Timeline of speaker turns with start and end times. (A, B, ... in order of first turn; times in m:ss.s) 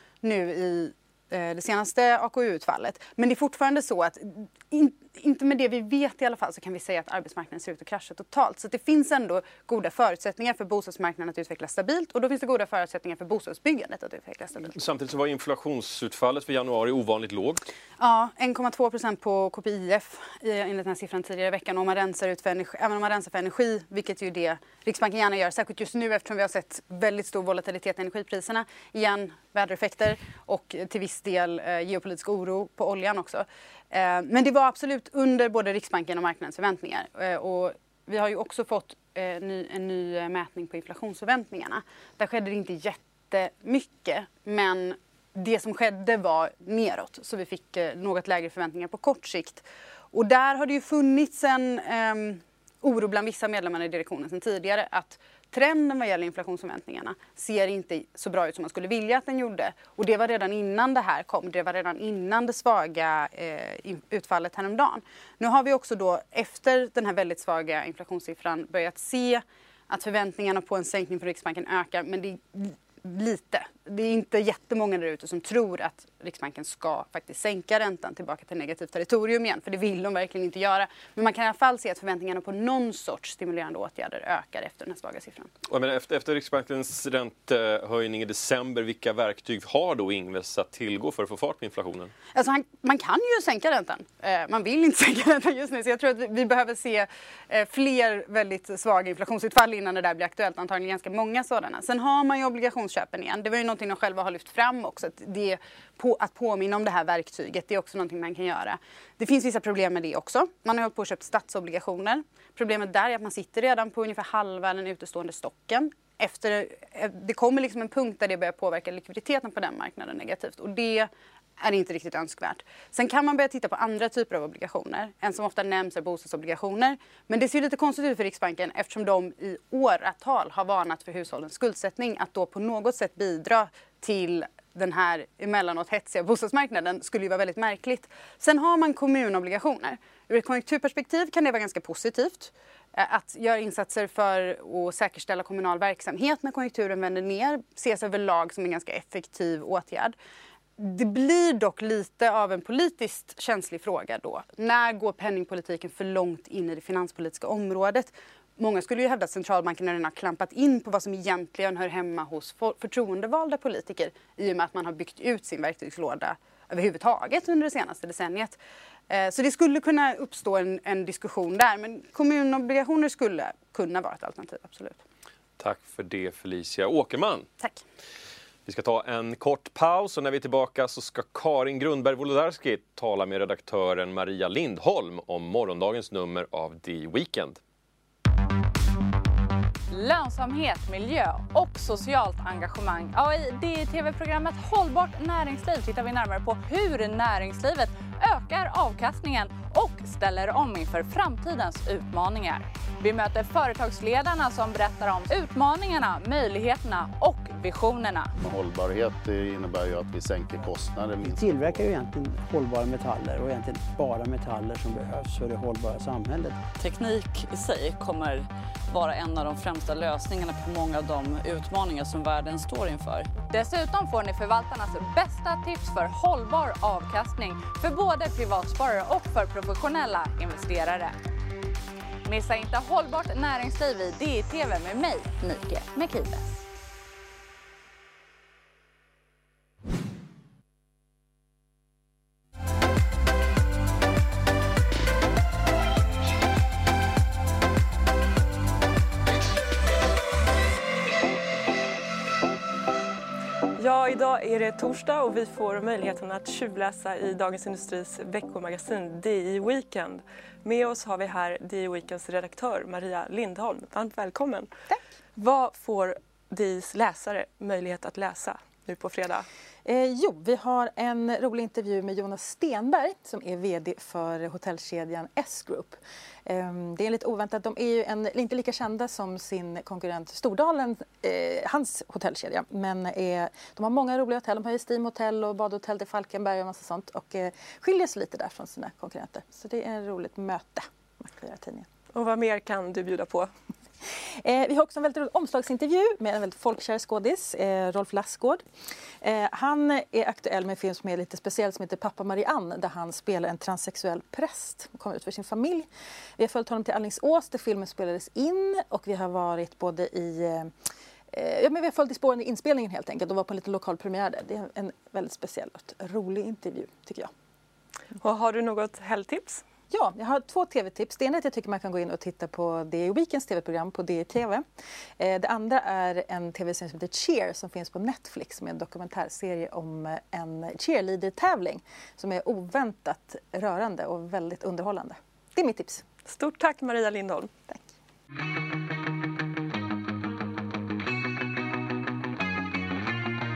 0:00.2-0:14.7 A
0:14.7-0:17.6 B
0:18.0-1:25.5 A
1:25.7-1:32.1 B
1:32.3-2:30.1 A
2:30.8-2:48.6 A
2:49.1-2:55.0 A
2:55.6-2:57.5 B
2:58.6-3:07.6 B
3:09.9-3:28.3 C
3:28.4-3:31.9 D
3:30.6-3:36.6 E
3:36.8-3:43.3 F
3:43.4-3:51.1 C
3:52.2-3:56.6 C
4:13.8-4:24.7 G
4:25.4-4:29.5 G
4:29.8-4:51.9 H
4:52.1-4:53.5 G
4:54.4-4:58.6 H
4:59.2-5:10.7 H
5:11.3-5:17.3 H
5:18.2-5:19.6 G
5:19.9-5:24.6 H
5:25.2-5:36.0 H
5:36.2-5:37.5 G